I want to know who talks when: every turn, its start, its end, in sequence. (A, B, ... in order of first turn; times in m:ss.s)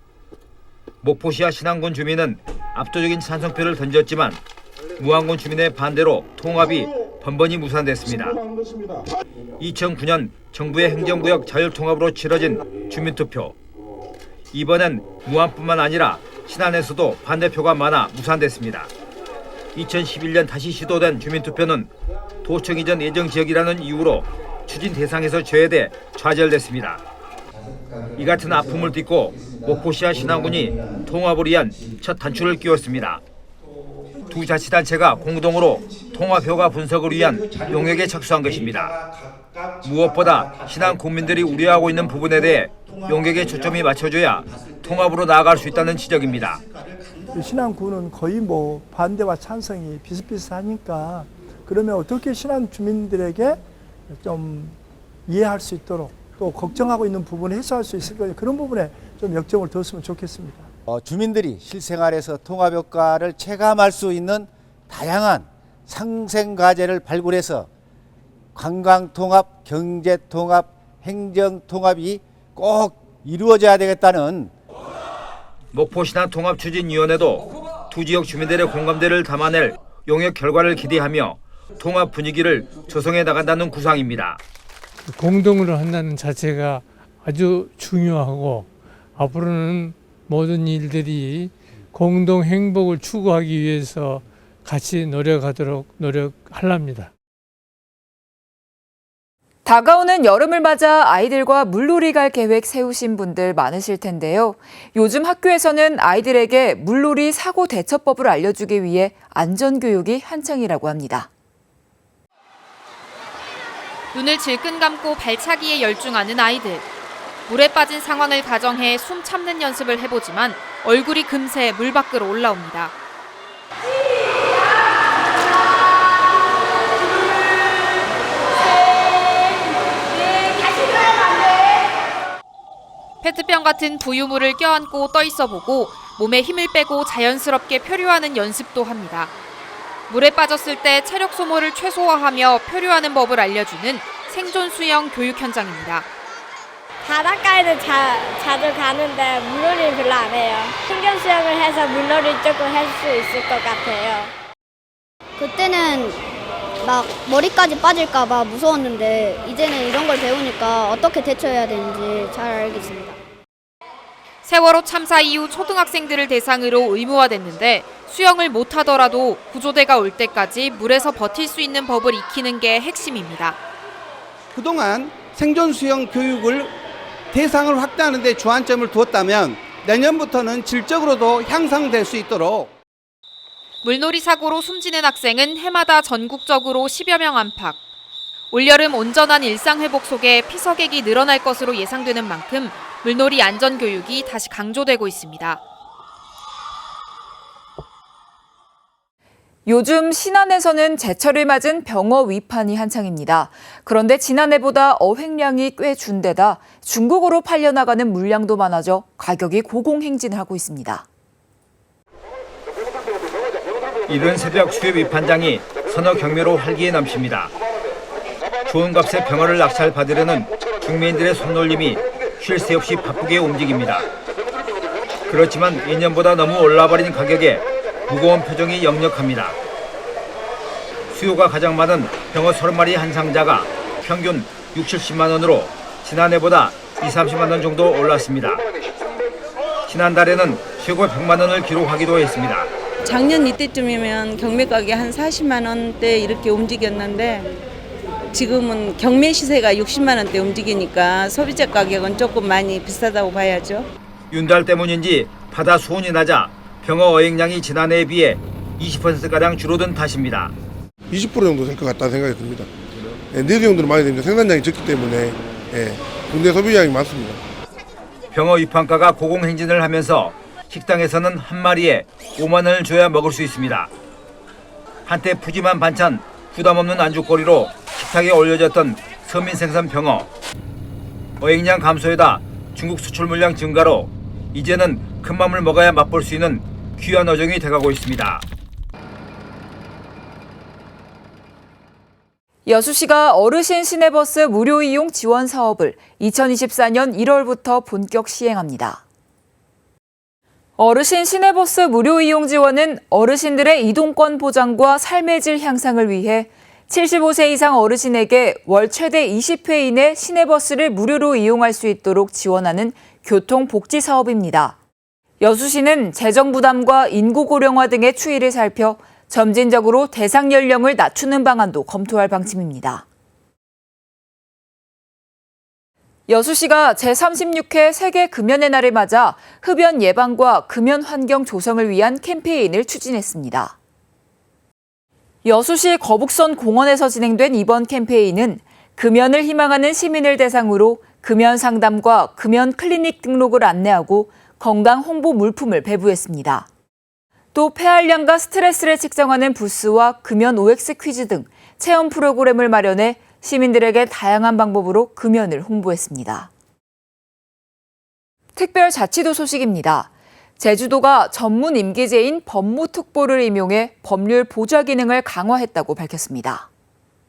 0:01.0-0:04.4 A
0:05.0-0:08.4 A
0:09.6-0:13.6 A
0:14.5-0:18.9 A
0:19.8-0:21.9 A
0:22.4-0:27.0 A
0:28.2-0:33.2 A
0:34.3-0:39.0 A
0:39.8-0:46.6 A
0:47.3-0:53.6 B
0:54.1-1:00.7 B
1:00.9-1:07.7 C
1:08.6-1:14.5 C
1:15.7-1:24.4 A
1:25.0-1:37.1 D
1:39.6-1:51.3 E
1:54.1-1:56.9 F
1:57.5-2:02.9 F
2:13.2-2:19.3 F
2:20.1-2:26.1 F
2:27.0-2:34.3 G
2:35.4-2:36.2 H
2:36.8-2:43.2 H
2:44.4-2:53.6 F
2:54.5-2:56.7 I
2:57.3-3:02.7 I
3:03.8-3:07.8 F
3:08.5-3:15.6 F
3:19.7-3:31.1 E
3:34.1-3:37.5 A
3:38.7-3:44.1 A
3:45.3-3:49.6 A
3:51.1-3:58.6 A
3:59.9-4:02.7 A
4:03.0-4:07.5 J
4:08.3-4:13.9 J
4:14.3-4:20.6 A
4:21.1-4:22.7 K
4:23.3-4:27.4 K
4:28.3-4:33.9 A
4:35.1-4:40.3 A
4:41.4-4:48.4 A
4:52.7-4:59.0 E
5:00.8-5:14.8 E
5:15.4-5:23.0 E
5:26.3-5:33.8 E
5:35.4-5:46.7 E
5:47.5-5:56.5 E
5:58.6-6:06.7 E